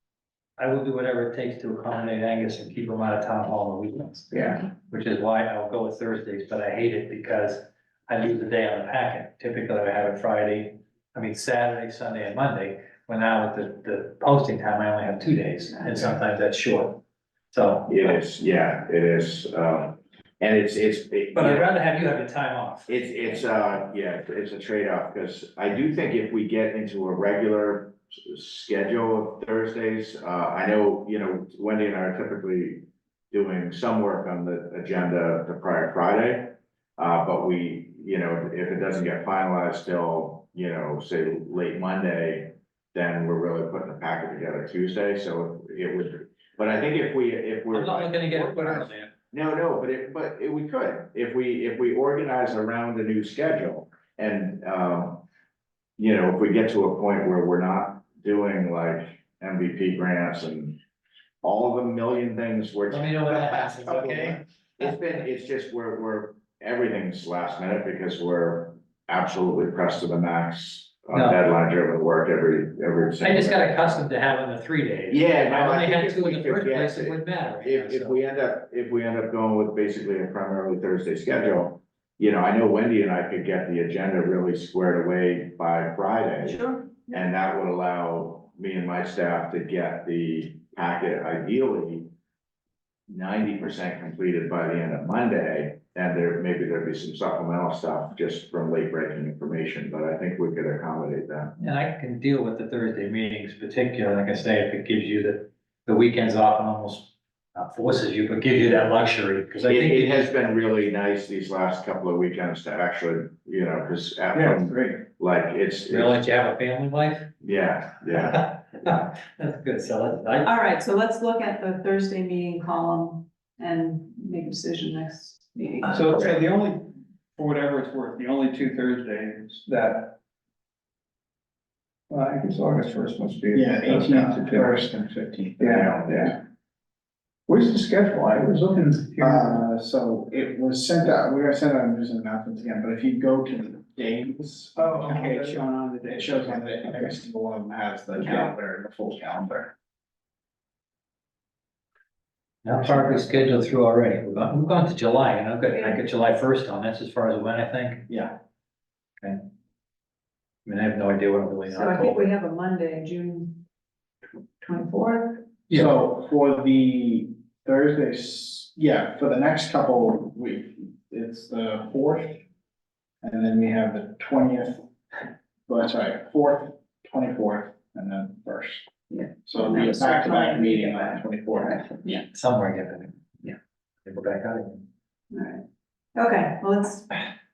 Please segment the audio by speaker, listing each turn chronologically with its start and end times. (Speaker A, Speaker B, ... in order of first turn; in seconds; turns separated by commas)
Speaker A: 0.6-18.2, Speaker B: 15.8-16.2, Speaker C: 17.9-21.7, Speaker A: 21.4-23.4, Speaker C: 22.9-55.2, Speaker A: 47.7-49.1, Speaker C: 56.0-60.8, Speaker C: 61.4-74.1, Speaker A: 62.9-65.0, Speaker A: 71.1-71.4, Speaker A: 73.2-78.2, Speaker C: 75.1-92.1, Speaker B: 86.4-87.2, Speaker C: 93.1-101.5, Speaker A: 101.6-110.3, Speaker C: 109.7-116.3, Speaker D: 114.4-114.9, Speaker A: 115.9-117.3, Speaker C: 117.4-118.4, Speaker A: 118.1-120.5, Speaker B: 120.4-126.0, Speaker E: 125.8-130.2, Speaker E: 132.1-134.8, Speaker D: 133.5-136.4, Speaker E: 135.6-136.4, Speaker E: 137.5-139.6, Speaker D: 139.2-149.7, Speaker E: 144.8-147.2, Speaker E: 148.2-148.5, Speaker A: 152.6-158.1, Speaker D: 152.8-153.6, Speaker B: 155.7-156.0, Speaker D: 158.1-158.3, Speaker A: 160.7-162.3, Speaker B: 161.7-163.6, Speaker B: 164.6-165.5, Speaker A: 165.7-166.0, Speaker D: 165.7-172.4, Speaker D: 173.2-174.9, Speaker D: 175.7-178.9, Speaker B: 179.1-182.3, Speaker D: 179.5-182.0, Speaker A: 182.3-184.8, Speaker B: 185.3-185.6, Speaker B: 186.2-187.2